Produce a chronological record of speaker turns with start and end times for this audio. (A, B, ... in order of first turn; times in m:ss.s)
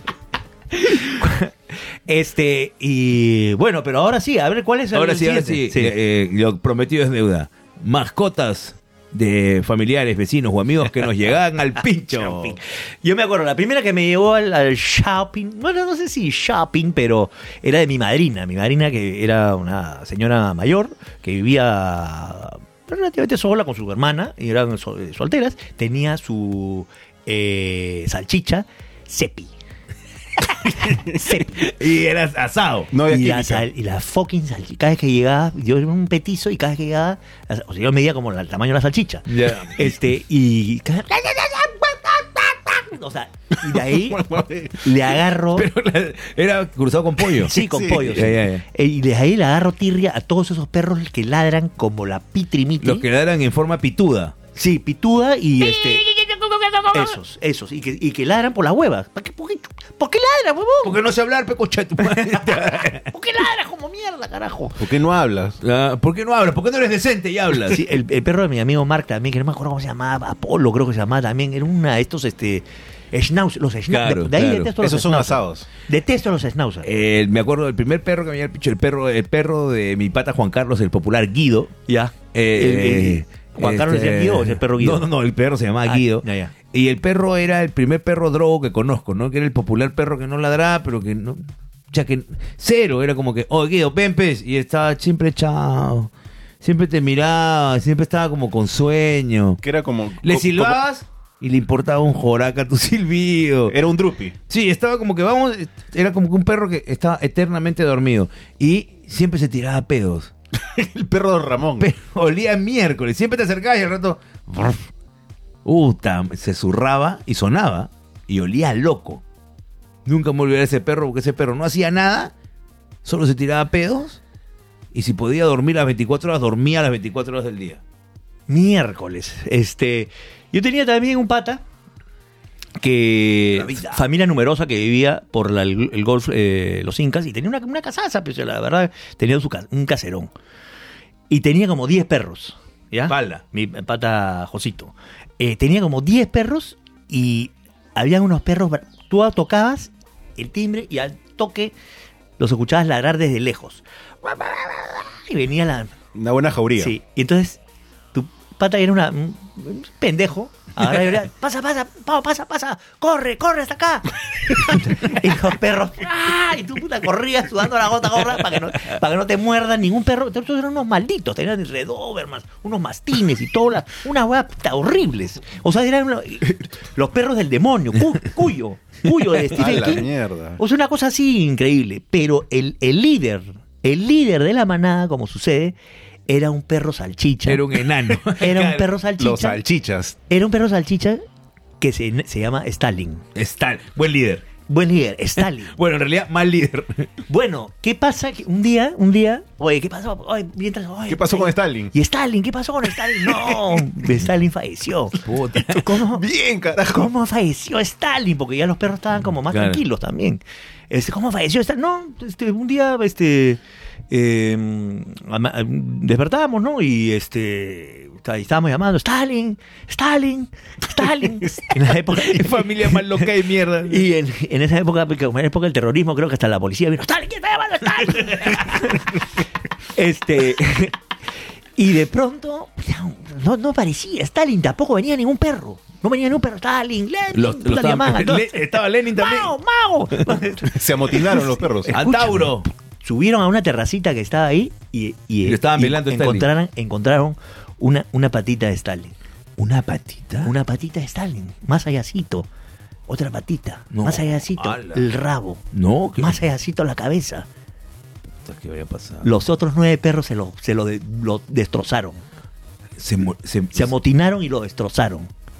0:00.7-0:01.5 A
0:02.0-0:06.0 A
0:04.9-0:12.6 B
0:12.1-0:29.5 A
0:30.5-0:31.7 A
0:31.3-0:32.9 B
0:32.9-0:33.6 C
0:33.0-0:45.7 A
0:39.3-0:39.9 B
0:43.9-0:44.8 C
0:45.5-0:48.6 B
0:47.4-0:53.0 A
0:47.5-0:48.2 C
0:52.8-0:54.4 B
0:54.5-0:56.0 A
0:55.6-0:57.2 B
0:56.9-1:01.0 A
1:00.8-1:03.1 B
1:02.2-1:04.8 A
1:04.8-1:05.6 C
1:05.6-1:07.8 B
1:07.7-1:16.9 A
1:13.9-1:14.7 B
1:14.8-1:15.7 C
1:16.8-1:21.7 B
1:21.9-1:25.0 A
1:22.3-1:39.6 B
1:25.8-1:26.5 A
1:39.6-1:40.8 C
1:40.2-1:43.8 B
1:43.7-1:44.4 C
1:44.5-1:50.3 B
1:50.7-1:51.9 C
1:51.8-1:54.9 B
1:55.6-1:59.2 B
2:00.0-2:02.3 B
2:03.0-2:04.2 B
2:04.9-2:07.8 B
2:08.5-2:11.6 A
2:12.8-2:20.3 A
2:13.5-2:14.0 B
2:21.3-2:31.7 A
2:23.1-2:23.4 B
2:32.4-2:35.9 A
2:36.1-2:36.9 C
2:36.8-2:37.6 A
2:38.1-3:05.8 A
2:59.4-3:00.6 C
3:06.3-3:09.6 A
3:07.4-3:08.9 B
3:09.2-3:10.2 C
3:10.3-3:11.2 A
3:11.8-3:13.2 A
3:13.3-3:14.4 B
3:14.7-3:15.7 A
3:15.4-3:17.1 B
3:17.3-3:26.2 A
3:21.1-3:21.9 C
3:25.2-3:25.9 B
3:25.9-3:27.1 C
3:26.9-3:43.3 A
3:29.5-3:29.8 B
3:42.0-3:44.1 B
3:43.8-3:49.2 A
3:49.9-3:51.0 A
3:51.8-4:09.1 A
3:57.3-3:59.5 B
4:00.7-4:01.9 C
4:01.9-4:02.7 B
4:05.4-4:06.5 B
4:09.6-4:10.5 B
4:10.4-4:12.5 A
4:13.1-4:15.6 A
4:13.9-4:15.0 B
4:15.7-4:16.4 B
4:16.2-4:17.5 A
4:18.4-4:19.3 B
4:19.2-4:22.2 A
4:23.0-4:23.9 B
4:23.7-4:25.3 A